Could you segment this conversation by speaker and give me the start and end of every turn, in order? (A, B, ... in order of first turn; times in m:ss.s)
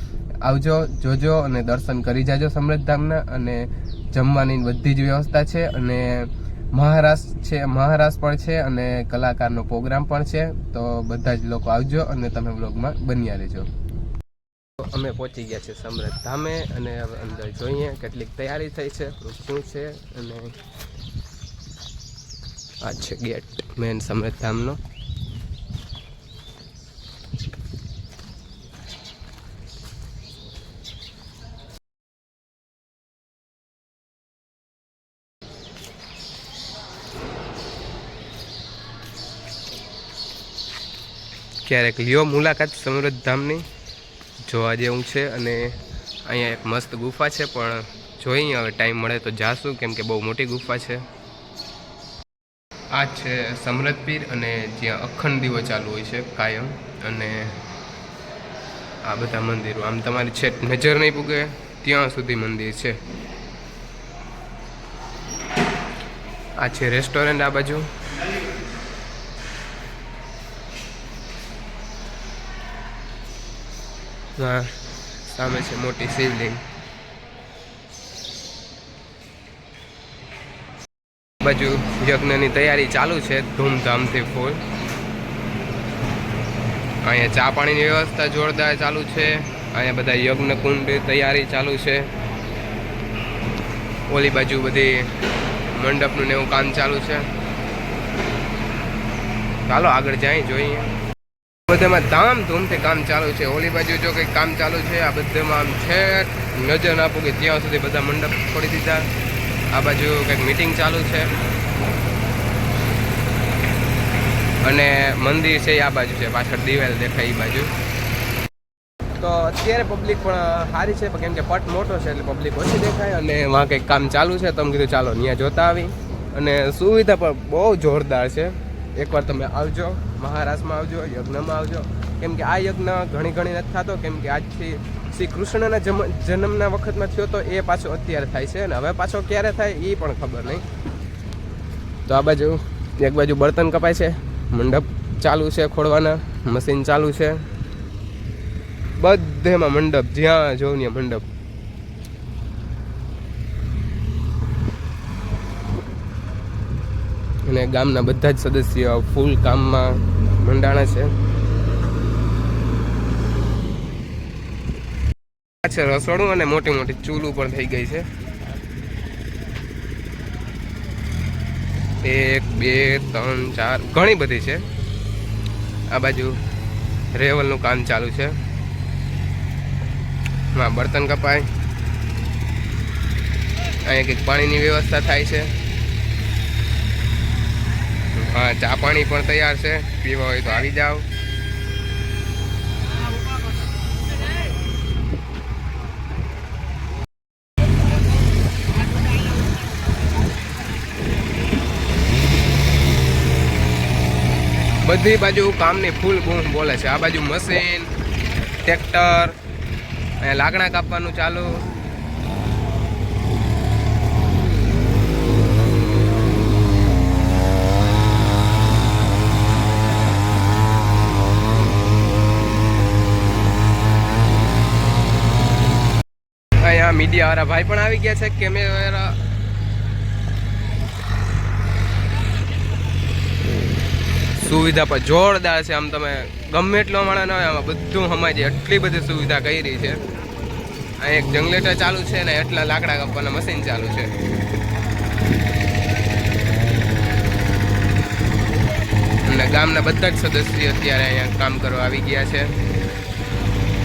0:00.4-0:13.7 A
0:14.8-0:20.6 A
0:22.8-0:24.8 A
0:41.6-0:43.6 A
0:44.4-0:51.1 A
0:52.9-0:57.6 A
0:59.1-1:03.0 A
1:06.6-1:07.9 A
1:14.4-1:16.6 A
1:21.4-1:24.6 A
1:27.0-1:32.1 A
1:34.1-1:35.1 A
1:35.7-1:37.3 A
1:39.7-1:40.9 A
1:41.7-1:49.1 A
1:49.7-1:51.3 A
1:54.6-1:57.7 A
1:59.2-2:20.6 A
2:22.1-2:27.4 A
2:29.0-2:31.2 A
2:37.5-2:41.1 A
2:45.6-2:48.1 A
2:52.0-2:54.6 A
2:55.9-2:56.4 A
2:57.1-2:58.4 A
3:00.5-3:01.5 A
3:03.8-3:05.5 A
3:08.1-3:11.1 A
3:24.8-3:27.9 A
3:28.6-3:29.4 A
3:30.2-3:31.6 A
3:46.6-3:49.2 A
3:54.4-4:00.0 A
4:01.0-4:04.1 A
4:09.3-4:12.5 A